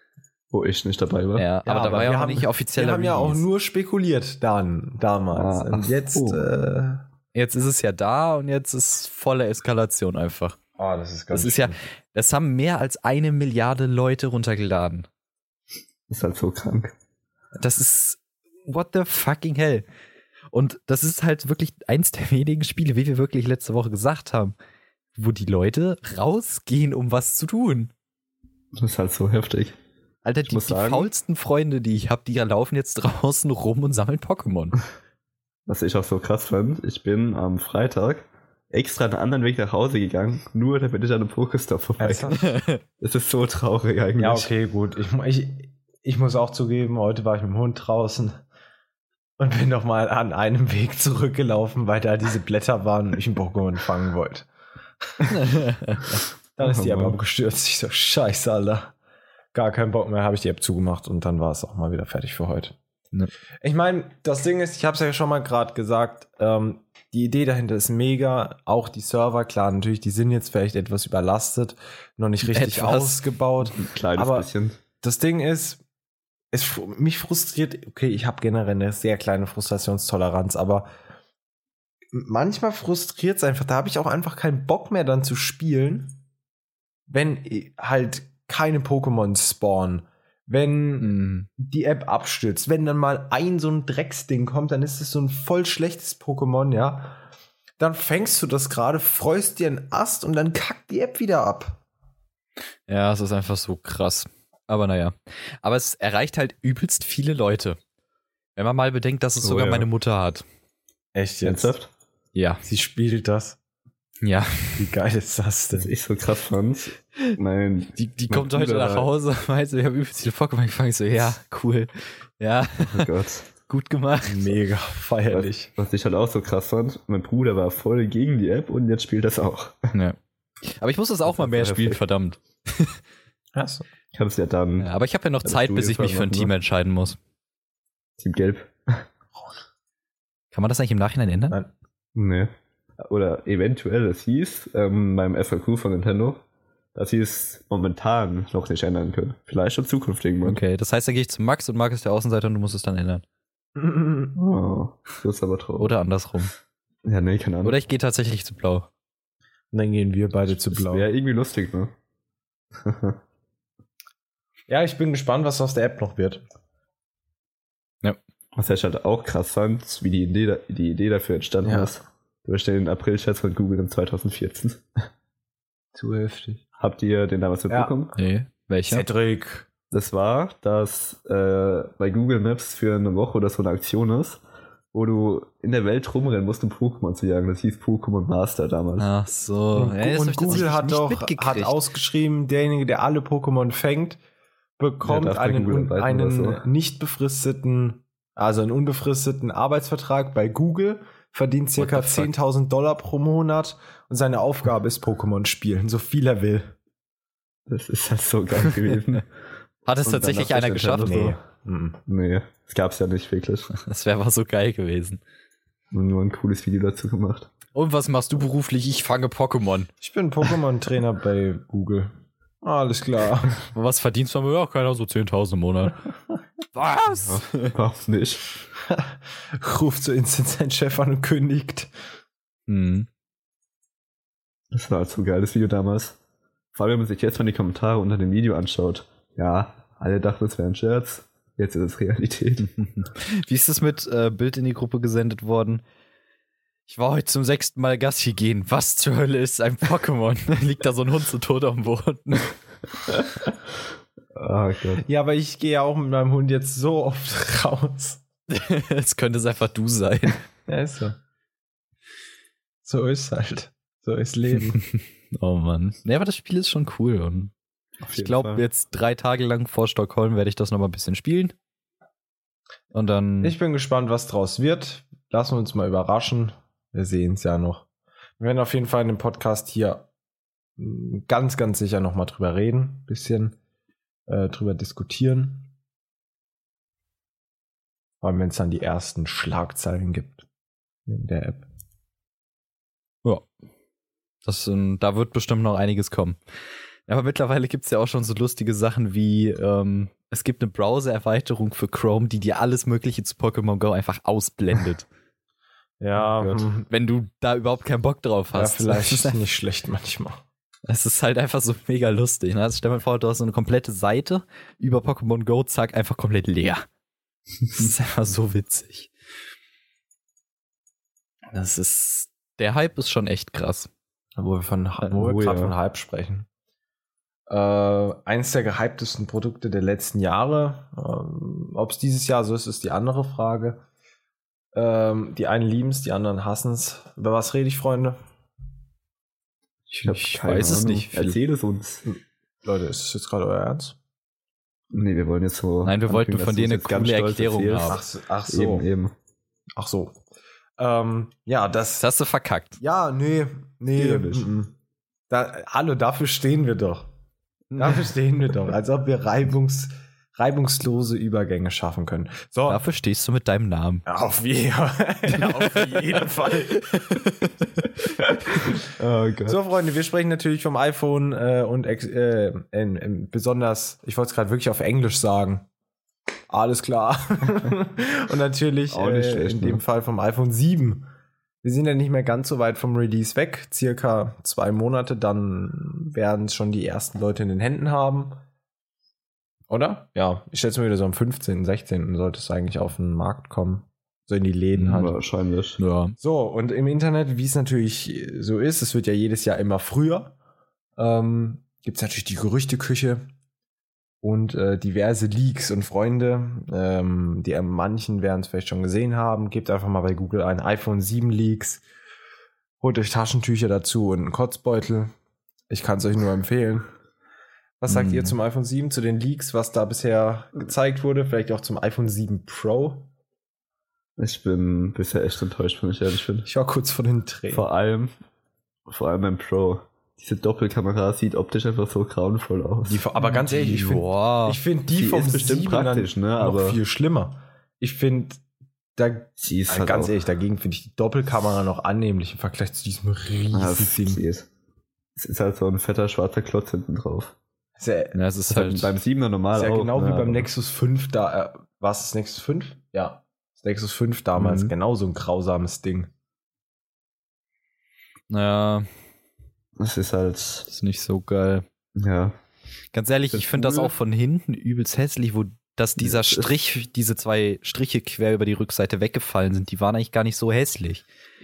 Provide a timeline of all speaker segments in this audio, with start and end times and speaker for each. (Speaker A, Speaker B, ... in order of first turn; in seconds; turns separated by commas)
Speaker A: 0.5-1.5, Speaker B: 1.4-3.4, Speaker C: 1.6-7.0, Speaker A: 5.3-6.5, Speaker B: 7.3-10.6, Speaker C: 10.8-11.8, Speaker B: 11.3-15.1, Speaker A: 16.1-16.9, Speaker B: 17.6-19.8, Speaker B: 20.5-24.5, Speaker B: 25.1-27.9, Speaker A: 28.7-29.7, Speaker B: 30.2-34.8, Speaker A: 30.4-31.1, Speaker A: 35.7-42.4, Speaker C: 42.0-42.5, Speaker B: 42.3-42.8, Speaker A: 43.0-44.5, Speaker C: 44.2-48.4, Speaker C: 49.4-54.5, Speaker C: 55.1-55.4, Speaker B: 55.3-56.2, Speaker C: 56.6-58.9, Speaker A: 56.6-57.2, Speaker C: 59.5-62.8, Speaker C: 63.6-74.5, Speaker B: 72.4-73.2, Speaker A: 73.6-74.8, Speaker C: 75.0-75.8, Speaker C: 76.5-80.9, Speaker C: 82.1-86.2, Speaker C: 87.1-97.2, Speaker B: 91.0-91.5, Speaker C: 97.8-101.8, Speaker B: 102.9-107.8, Speaker B: 108.5-110.4, Speaker A: 109.4-109.8, Speaker C: 111.1-111.7, Speaker A: 111.4-111.9, Speaker B: 112.3-112.6, Speaker C: 112.6-113.6, Speaker B: 114.2-114.8, Speaker C: 114.8-115.9, Speaker A: 115.7-119.1, Speaker B: 117.9-123.1, Speaker A: 122.8-123.5, Speaker B: 123.7-124.5, Speaker C: 124.2-125.7, Speaker A: 125.3-129.9, Speaker B: 129.9-133.0, Speaker A: 131.3-132.0, Speaker C: 133.6-133.9, Speaker A: 134.1-134.9, Speaker B: 134.8-137.2, Speaker A: 135.4-136.5, Speaker A: 138.2-139.1, Speaker B: 140.5-141.6, Speaker A: 142.1-146.4, Speaker A: 146.9-150.6, Speaker B: 150.4-153.2, Speaker C: 153.8-154.3, Speaker A: 154.3-155.9, Speaker B: 155.8-156.5, Speaker A: 157.0-157.8, Speaker B: 157.6-158.9, Speaker C: 159.7-161.1, Speaker A: 160.7-161.9, Speaker A: 162.7-163.2, Speaker C: 164.7-166.4, Speaker A: 168.5-174.8, Speaker C: 171.6-172.0, Speaker C: 175.9-176.6, Speaker A: 176.8-178.1, Speaker B: 178.1-179.1, Speaker C: 178.9-179.7, Speaker A: 179.9-184.4, Speaker A: 184.9-189.1, Speaker B: 189.0-191.8, Speaker C: 189.7-194.2, Speaker C: 194.8-206.7, Speaker A: 195.0-196.6, Speaker B: 201.8-202.3, Speaker A: 207.7-209.2, Speaker B: 209.8-211.3, Speaker A: 210.0-211.4, Speaker C: 211.0-212.0, Speaker A: 212.1-213.7, Speaker B: 213.7-215.2, Speaker A: 215.9-217.5, Speaker B: 217.7-219.9, Speaker C: 220.0-223.6, Speaker B: 223.7-226.0, Speaker B: 226.7-227.7, Speaker A: 227.1-228.4, Speaker C: 228.9-231.9, Speaker B: 232.7-233.1, Speaker A: 234.7-236.2, Speaker A: 236.7-242.7, Speaker B: 243.0-245.8, Speaker B: 246.9-252.5, Speaker A: 254.3-255.0, Speaker C: 255.0-258.2, Speaker B: 258.5-260.4, Speaker C: 260.7-261.1, Speaker C: 262.8-264.8, Speaker B: 264.7-267.5, Speaker A: 268.0-268.6, Speaker B: 268.1-271.5, Speaker B: 272.9-273.5, Speaker C: 273.4-277.9, Speaker C: 278.4-280.1, Speaker C: 280.8-283.6, Speaker C: 284.3-285.7, Speaker C: 288.2-290.4, Speaker C: 291.1-291.6, Speaker B: 294.4-296.4, Speaker B: 297.1-305.1, Speaker C: 306.0-306.9, Speaker A: 306.4-306.6, Speaker B: 306.9-309.4, Speaker C: 308.5-310.4, Speaker B: 310.9-316.8, Speaker B: 317.7-319.1, Speaker B: 321.5-323.9, Speaker C: 324.4-326.4, Speaker A: 325.1-325.7, Speaker C: 327.5-333.8, Speaker C: 334.7-338.1, Speaker B: 339.9-341.4, Speaker A: 340.0-342.0, Speaker C: 342.1-343.9, Speaker A: 344.9-349.1, Speaker B: 345.8-348.0, Speaker C: 347.9-348.9, Speaker C: 349.8-350.2, Speaker C: 350.8-352.1, Speaker B: 352.0-352.8, Speaker C: 352.8-354.7, Speaker A: 353.9-354.5, Speaker C: 355.3-357.1, Speaker B: 357.7-358.1, Speaker C: 357.8-362.8, Speaker B: 362.7-364.0, Speaker C: 364.1-367.2, Speaker B: 365.3-367.9, Speaker A: 368.9-369.6, Speaker C: 369.4-375.7, Speaker C: 376.5-381.1, Speaker A: 378.9-379.8, Speaker C: 381.6-388.4, Speaker C: 389.7-395.1, Speaker B: 394.8-395.1, Speaker A: 394.9-395.8, Speaker B: 395.8-396.1, Speaker C: 396.2-400.3, Speaker C: 401.0-403.2, Speaker C: 404.2-411.8, Speaker C: 412.8-415.1, Speaker C: 415.7-416.9, Speaker C: 417.8-423.1, Speaker B: 417.9-418.4, Speaker A: 424.2-426.5, Speaker C: 426.4-427.6, Speaker A: 427.5-428.1, Speaker A: 428.9-433.0, Speaker C: 432.9-438.4, Speaker B: 433.2-434.6, Speaker A: 434.9-436.8, Speaker C: 439.0-444.2, Speaker A: 439.4-440.1, Speaker A: 443.5-444.5, Speaker A: 445.1-447.3, Speaker C: 447.8-448.2, Speaker B: 448.1-448.9, Speaker A: 448.5-450.5, Speaker C: 449.5-456.1, Speaker B: 454.4-454.7, Speaker B: 458.3-458.9, Speaker A: 459.8-460.7, Speaker B: 460.7-461.6, Speaker A: 461.9-462.3, Speaker B: 462.9-471.0, Speaker A: 463.3-463.9, Speaker A: 466.0-466.5